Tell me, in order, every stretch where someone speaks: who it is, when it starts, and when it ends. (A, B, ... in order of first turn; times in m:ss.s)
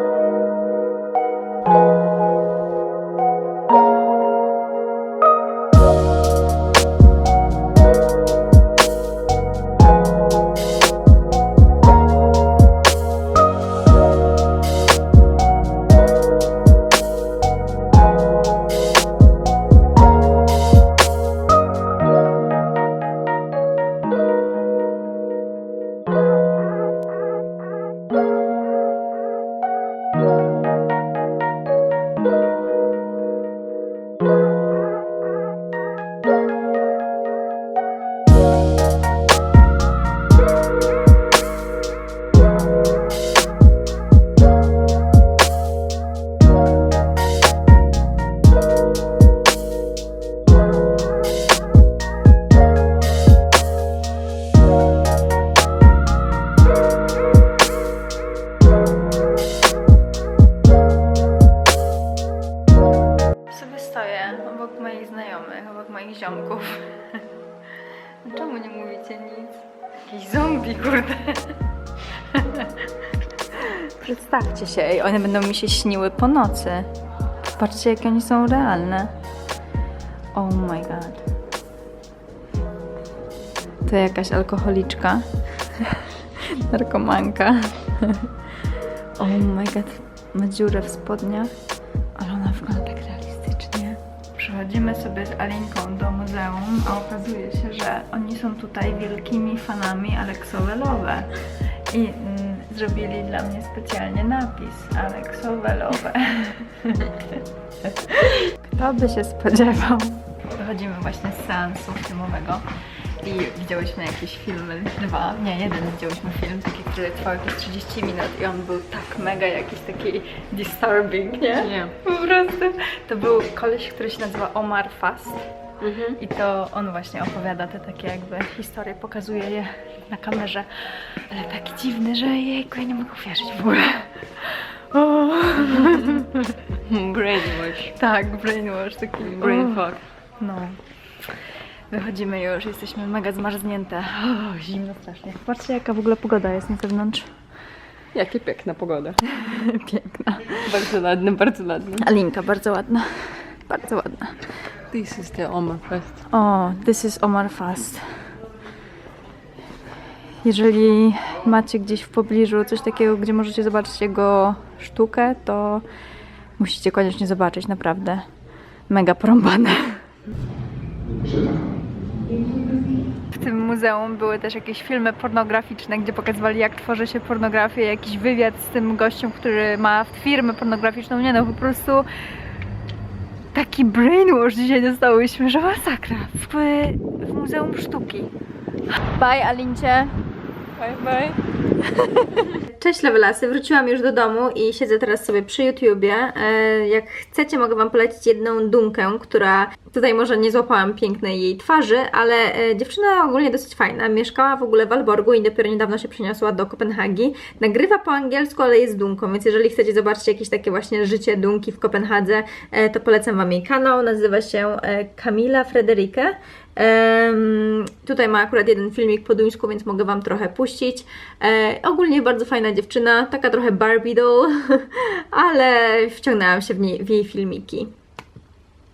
1:03.5-1:07.2 A
1:08.2-1:11.6 A
1:12.2-1:12.9 A
1:13.5-1:16.9 A
1:17.5-1:19.1 A
1:20.3-1:21.2 A
1:23.8-1:28.3 A
1:29.2-1:31.5 A
1:32.2-1:41.3 A
1:41.9-1:52.6 A
1:53.2-2:05.4 A
2:01.6-2:01.9 B
2:05.8-2:06.2 B
2:06.2-2:16.6 A
2:16.8-2:17.9 B
2:17.9-2:19.8 A
2:19.2-2:20.0 B
2:20.4-2:20.8 A
2:21.9-2:27.3 A
2:28.1-2:29.2 B
2:29.3-2:30.7 A
2:30.6-2:32.1 B
2:32.0-2:34.4 A
2:34.9-2:36.2 B
2:36.3-2:38.3 A
2:40.4-2:45.8 A
2:46.6-2:48.2 A
2:48.9-2:50.0 A
2:53.2-3:02.1 A
3:03.5-3:08.3 A
3:09.0-3:10.2 A
3:10.8-3:11.4 B
3:12.3-3:47.9 A